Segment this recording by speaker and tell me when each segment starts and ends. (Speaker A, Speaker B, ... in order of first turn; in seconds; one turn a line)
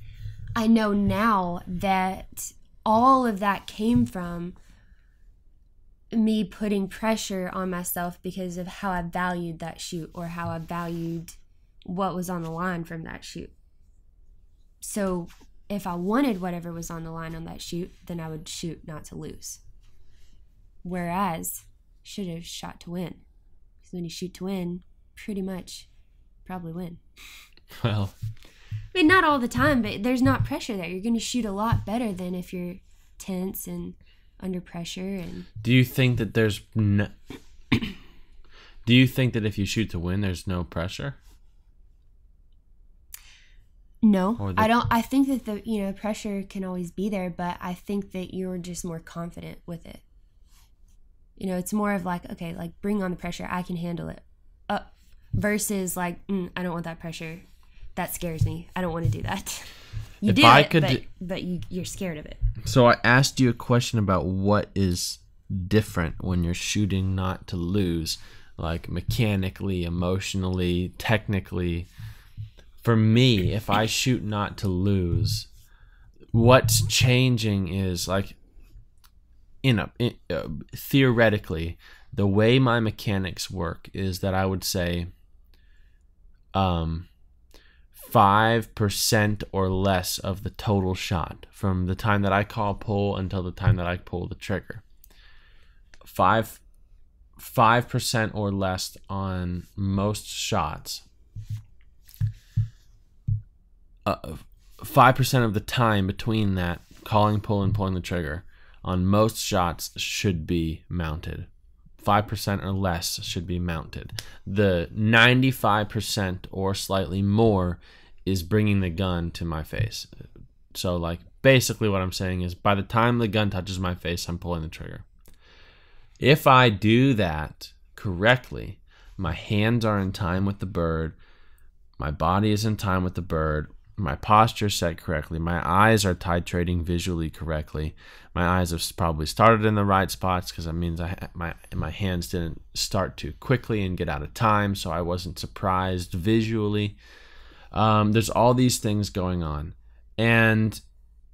Speaker A: 0.6-4.5
Speaker A: 6.1-13.5
Speaker A: 14.8-19.6
Speaker A: 20.8-23.2
Speaker A: 23.8-25.9
Speaker A: 26.4-27.0
Speaker B: 27.8-28.1
Speaker A: 28.9-35.5
Speaker B: 35.6-37.1
Speaker B: 38.9-41.2
Speaker A: 44.0-50.0
Speaker B: 44.4-44.7
Speaker A: 51.4-57.4
Speaker A: 58.0-59.7
Speaker B: 60.2-61.0
Speaker A: 60.2-62.4
Speaker B: 62.6-71.9
Speaker B: 72.8-75.5
Speaker B: 76.3-78.4
Speaker B: 79.6-85.1
Speaker B: 86.5-87.1
Speaker B: 87.9-94.8
Speaker B: 96.0-96.6
Speaker B: 97.4-101.0
Speaker B: 104.0-111.5
Speaker B: 112.0-125.0
Speaker B: 126.2-131.2
Speaker B: 132.0-147.0
Speaker B: 147.7-150.8